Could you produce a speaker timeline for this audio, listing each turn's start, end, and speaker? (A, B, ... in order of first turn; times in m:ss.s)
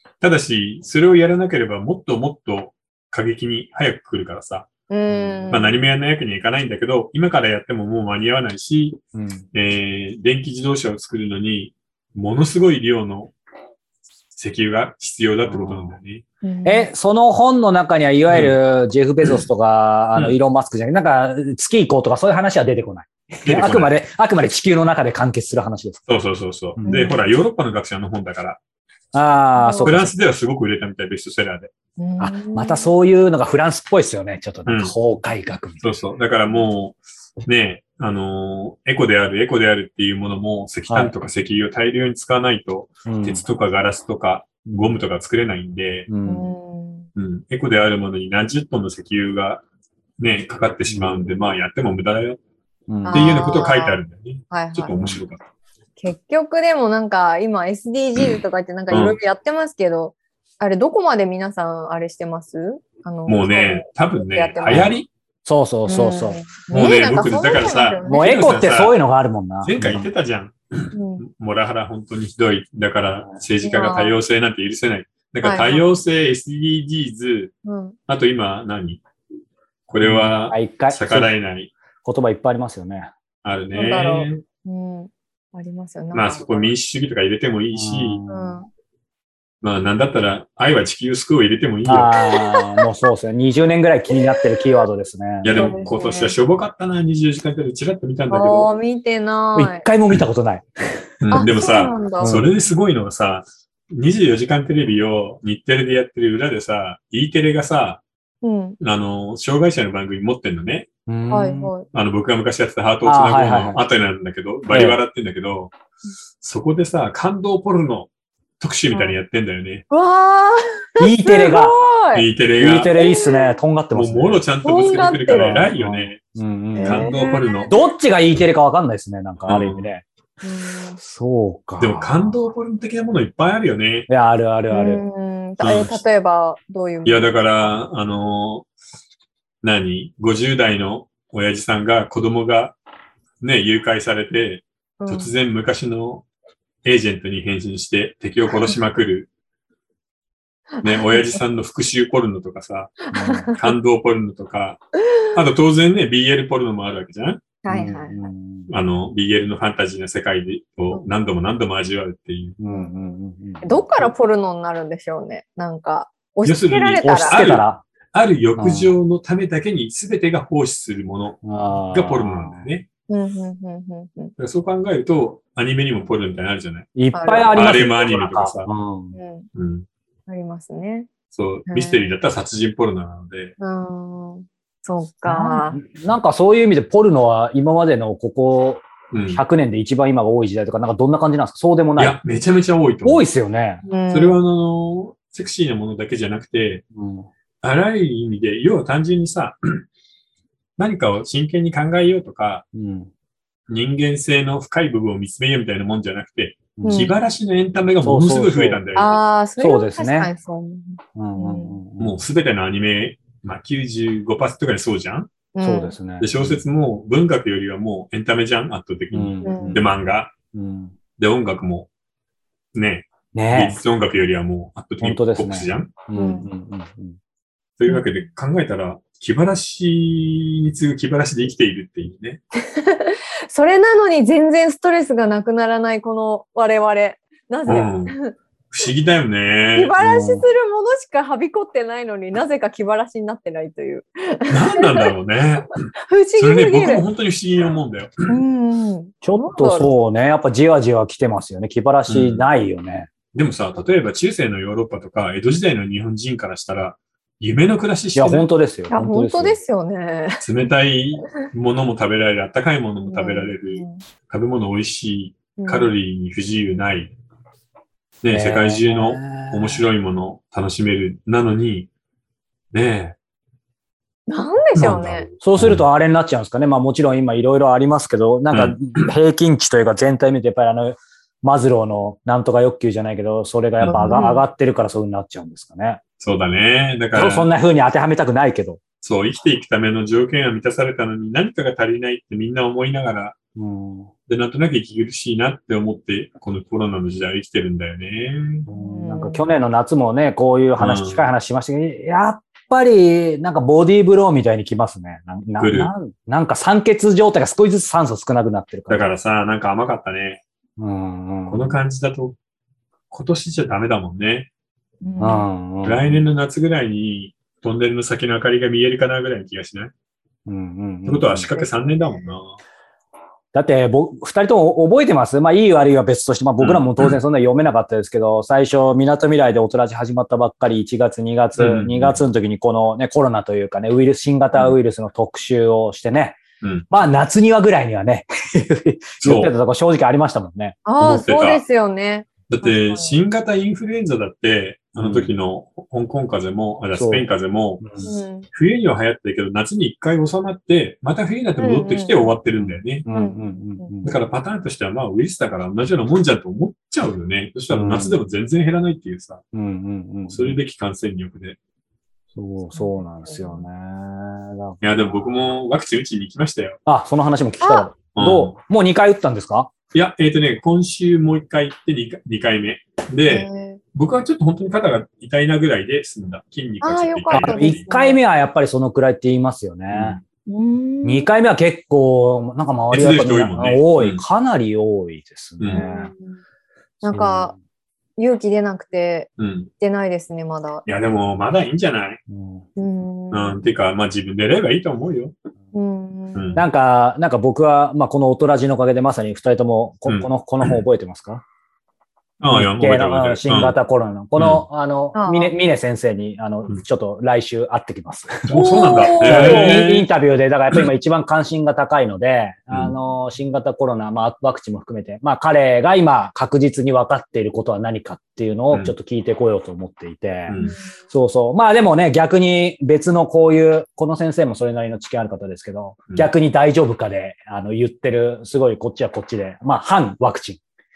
0:00.2-0:04.7 A
0:04.9-0:05.8 B
0:05.1-0:05.6 C
0:05.5-0:09.0 A
0:09.1-0:09.4 C
0:09.5-0:13.3 A
0:14.4-0:16.2 A
0:15.4-0:16.0 C
0:16.4-0:16.9 B
0:16.6-0:26.1 C
0:18.3-0:18.6 A
0:23.4-0:23.9 A
0:26.1-0:28.6 A
0:26.8-0:27.2 B
0:29.1-0:30.1 C
0:29.6-0:30.0 B
0:29.8-0:31.7 A
0:32.0-0:32.9 B
0:32.2-0:36.0 C
0:34.6-0:34.9 A
0:35.8-0:46.1 A
0:40.9-0:41.1 C
0:43.0-0:43.4 C
0:46.1-0:46.5 C
0:46.2-0:47.1 B
0:47.2-0:49.6 A
0:50.2-0:52.4 A
0:50.9-0:51.3 C
0:52.9-0:53.4 C
0:53.0-0:54.0 B
0:53.1-0:55.4 A
0:54.5-0:54.9 B
0:56.0-1:05.0 B
0:58.9-0:59.2 A
1:03.3-1:05.1 A
1:04.7-1:06.4 C
1:05.8-1:08.5 B
1:06.7-1:08.9 A
1:08.0-1:10.1 C
1:09.6-1:17.5 A
1:10.9-1:11.2 B
1:13.6-1:14.2 B
1:15.4-1:15.8 B
1:17.6-1:18.0 B
1:18.1-1:19.0 A
1:19.9-1:21.7 A
1:20.0-1:21.3 C
1:22.0-1:23.1 C
1:23.4-1:24.4 A
1:23.7-1:26.7 B
1:26.1-1:28.2 A
1:27.7-1:28.6 C
1:28.3-1:28.7 B
1:29.6-1:32.1 A
1:31.8-1:35.8 C
1:32.2-1:32.8 B
1:34.3-1:34.8 B
1:35.4-1:38.7 A
1:35.5-1:36.3 B
1:38.3-1:39.8 B
1:39.5-1:41.4 C
1:41.2-1:48.0 A
1:41.3-1:42.4 B
1:42.2-1:42.5 C
1:48.4-1:48.8 B
1:48.8-1:50.9 A
1:51.1-1:51.7 C
1:51.3-1:51.8 B
1:51.9-1:55.7 A
1:53.0-1:53.8 C
1:54.7-1:55.0 C
1:56.4-1:59.8 A
1:58.9-1:59.2 B
1:59.9-2:02.2 B
2:01.0-2:01.7 C
2:02.1-2:02.9 A
2:02.6-2:04.4 C
2:02.9-2:03.6 B
2:03.9-2:06.2 A
2:04.6-2:05.7 B
2:05.3-2:07.1 C
2:06.8-2:07.7 B
2:06.8-2:07.7 A
2:07.7-2:10.0 C
2:09.4-2:09.9 A
2:10.4-2:11.0 B
2:11.0-2:12.4 C
2:11.8-2:14.1 A
2:14.1-2:15.0 C
2:14.7-2:17.4 B
2:15.6-2:16.0 A
2:17.0-2:18.7 A
2:19.6-2:22.8 A
2:23.4-2:26.2 A
2:25.0-2:25.3 B
2:26.8-2:29.3 A
2:30.8-2:37.4 A
2:30.9-2:31.4 B
2:33.1-2:33.7 B
2:33.1-2:33.5 C
2:37.6-2:38.2 B
2:37.7-2:38.7 C
2:38.7-2:42.6 A
2:42.6-2:44.0 C
2:42.7-2:43.0 B
2:43.6-2:47.4 B
2:46.4-2:52.8 A
2:47.0-2:47.8 C
2:48.6-2:49.0 C
2:51.4-2:52.7 C
2:53.1-2:54.3 B
2:54.4-2:56.9 A
2:57.0-2:59.2 C
2:57.1-2:57.6 B
2:57.5-2:58.7 A
2:59.1-2:59.5 B
2:59.5-2:59.8 A
3:00.3-3:01.1 B
3:01.3-3:03.5 A
3:01.7-3:02.1 B
3:03.6-3:05.8 B
3:05.2-3:12.2 C
3:09.1-3:09.4 A
3:12.0-3:13.2 A
3:13.0-3:13.8 C
3:13.8-3:14.4 B
3:14.1-3:16.8 A
3:16.9-3:17.3 C
3:17.6-3:19.8 A
3:20.8-3:22.6 A
3:22.7-3:23.1 C
3:23.7-3:29.2 A
3:26.8-3:27.1 C
3:26.8-3:27.1 B
3:28.0-3:28.8 C
3:28.9-3:31.8 B
3:29.6-3:30.3 C
3:31.2-3:32.2 C
3:32.0-3:35.3 A
3:35.5-3:36.0 B
3:35.6-3:36.6 C
3:36.2-3:40.3 A
3:39.1-3:39.9 C
3:39.4-3:39.8 B
3:40.5-3:41.0 C
3:41.2-3:41.9 A
3:42.7-3:45.9 A
3:43.3-3:43.8 C
3:45.0-3:47.2 C
3:46.1-3:46.4 B
3:47.8-3:52.4 A
3:47.9-3:48.2 B
3:52.6-3:58.3 B
3:57.7-3:58.2 A
3:58.7-3:59.9 A
3:59.7-4:05.1 B
4:00.0-4:00.4 C
4:04.5-4:05.8 A
4:06.0-4:07.0 B
4:06.4-4:08.3 A
4:08.3-4:09.9 B
4:09.2-4:13.1 C
4:12.1-4:12.5 A
4:13.3-4:18.5 A
4:18.1-4:19.6 C
4:18.9-4:20.4 B
4:20.4-4:27.1 A
4:23.0-4:24.0 B
4:25.6-4:25.9 B
4:28.2-4:31.9 A
4:28.3-4:29.8 C
4:32.7-4:33.2 A
4:34.3-4:35.3 B
4:34.8-4:35.8 A
4:35.4-4:46.0 C
4:38.5-4:39.1 A
4:43.8-4:44.2 A
4:43.9-4:44.4 B
4:46.2-4:47.5 A
4:47.1-4:48.8 C
4:49.0-4:53.4 A
4:53.5-4:54.1 C
4:54.3-4:58.7 A
4:58.7-5:09.1 C
4:58.7-4:59.4 B
5:00.8-5:01.2 A
5:05.6-5:05.9 A
5:08.9-5:10.4 A
5:10.8-5:11.8 C
5:11.5-5:12.4 A
5:13.1-5:14.5 A
5:15.0-5:15.5 B
5:15.2-5:16.2 C
5:15.8-5:19.9 A
5:20.4-5:21.5 C
5:21.0-5:22.6 A
5:21.5-5:22.2 B
5:23.5-5:40.8 C
5:26.6-5:27.2 A
5:31.6-5:32.2 A
5:39.2-5:39.5 A
5:40.8-5:43.1 B
5:41.0-5:41.6 A
5:42.5-5:47.9 A
5:45.0-5:45.3 C
5:46.9-5:47.3 C
5:47.8-5:48.1 C
5:48.0-5:48.5 B
5:48.5-5:53.0 A
5:51.6-5:52.3 B
5:52.6-5:54.1 C
5:53.1-5:53.9 B
5:54.0-5:59.4 A
5:57.7-5:58.2 C
5:59.5-6:00.6 C
6:00.3-6:01.6 A
6:02.3-6:05.2 C
6:02.7-6:03.7 B
6:04.8-6:06.8 A
6:06.8-6:09.7 C
6:07.6-6:07.9 B
6:08.1-6:08.5 A
6:09.9-6:17.8 A
6:13.3-6:13.8 B
6:16.8-6:18.2 B
6:17.3-6:20.2 C
6:19.9-6:20.2 A
6:20.5-6:21.3 B
6:21.0-6:26.1 C
6:22.9-6:24.2 A
6:25.7-6:26.4 B
6:27.0-6:27.5 B
6:27.0-6:27.5 C
6:28.2-6:30.8 B
6:29.4-6:29.7 A
6:30.8-6:32.2 A
6:32.3-6:32.7 C
6:32.8-6:33.6 B
6:33.3-6:35.3 A
6:35.7-6:36.5 B
6:36.3-6:36.6 A
6:36.6-6:41.4 C
6:40.0-6:40.8 A
6:42.4-6:43.8 A
6:42.5-6:48.6 C
6:44.4-6:44.6 A
6:45.1-6:45.5 B
6:48.5-6:50.1 A
6:48.5-6:49.8 B
6:49.1-7:00.6 C
7:00.5-7:00.8 A
7:00.6-7:00.9 B
7:01.1-7:10.6 C